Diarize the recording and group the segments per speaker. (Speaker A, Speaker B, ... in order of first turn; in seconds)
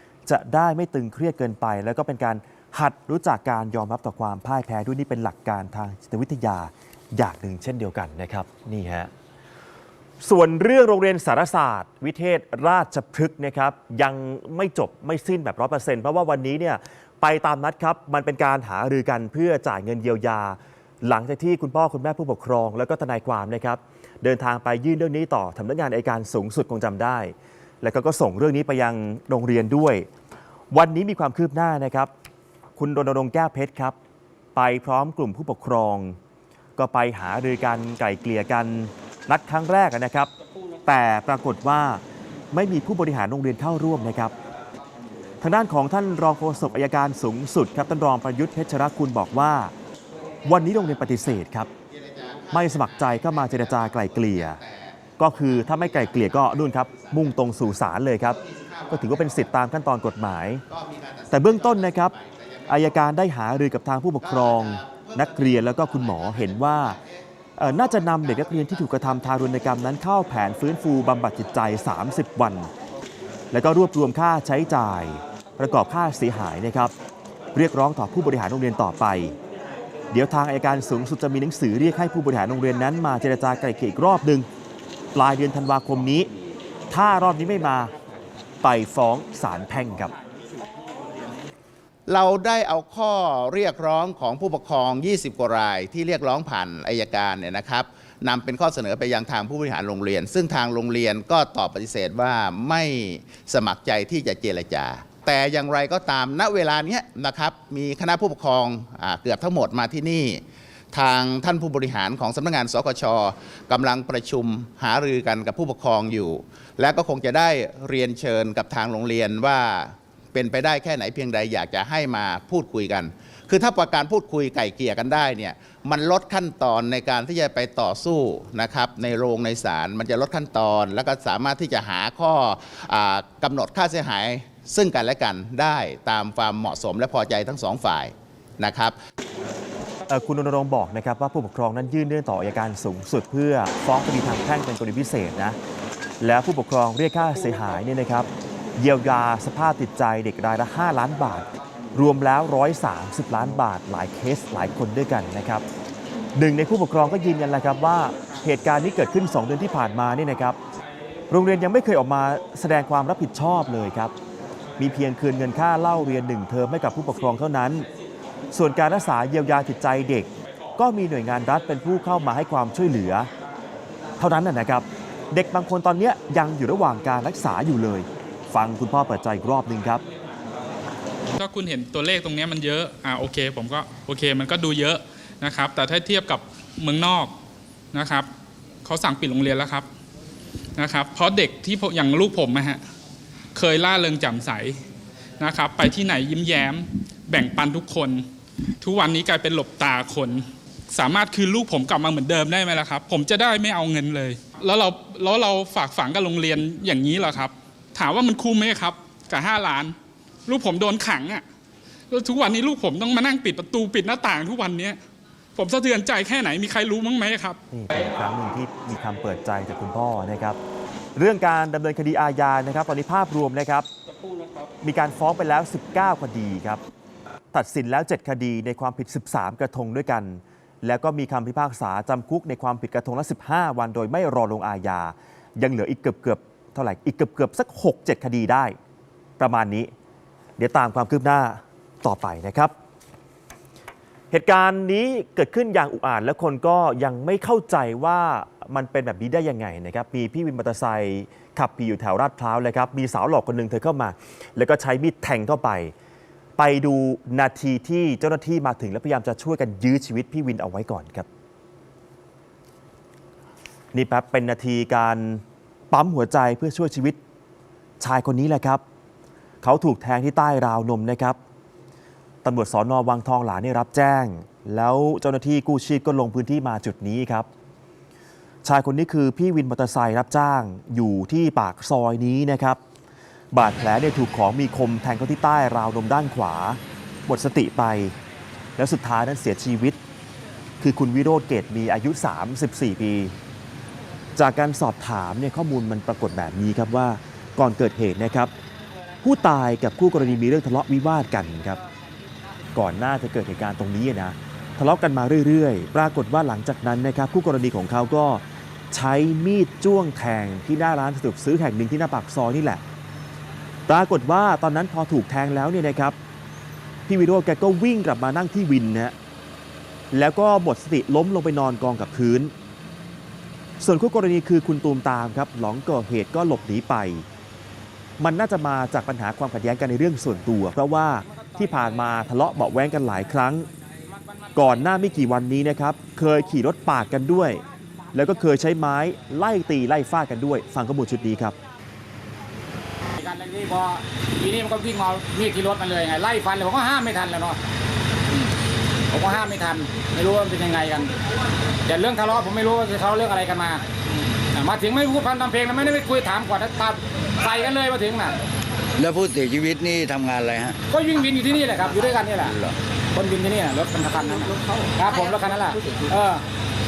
Speaker A: 0.3-9.1, 10.2-30.1, 30.7-32.1, 32.8-34.0, 34.5-36.2, 36.8-40.3, 40.9-44.3, 45.4-49.7, 50.5-51.7, 52.5-54.6, 55.2-58.4, 58.9-60.6, 61.3-62.1, 62.7-67.0, 67.6-72.7, 73.5-76.9, 77.5-79.3, 80.1-84.5, 85.1-86.3, 86.9-87.9, 88.6-90.1, 140.1-145.6, 146.2-155.6, 156.3-160.6, 161.3-164.1, 164.8-167.9, 168.5-173.3, 174.2-180.0, 217.7-220.6, 221.2-223.9, 224.8-226.8, 227.5-238.8, 239.4-239.9, 240.6-242.7, 244.3-255.9, 256.6-261.3, 263.9-267.2, 268.0-268.8, 269.6-271.4, 272.4-277.5, 278.6-282.8, 283.5-288.1, 288.8-290.0, 290.8-293.3, 294.4-298.5, 299.2-301.8, 302.8-312.8, 313.9-316.1, 317.1-319.1, 320.1-322.5, 323.8-327.2, 328.2-333.7, 334.6-337.6, 338.1-341.5
Speaker B: 51.9-57.6, 58.4-59.5, 60.7-62.8, 64.2-67.0, 68.2-69.0, 92.1-139.0
Speaker C: 181.4-187.3, 187.9-188.3, 188.8-189.8, 190.8-192.8, 193.5-194.8, 195.4-198.2, 198.8-209.9, 210.5-211.4, 212.1-215.0, 215.6-217.6
Speaker D: 343.2-347.6, 349.1-351.1, 351.9-353.8, 354.5-358.3, 360.9-362.5, 363.1-366.4
Speaker E: 359.0-360.8, 362.4-362.8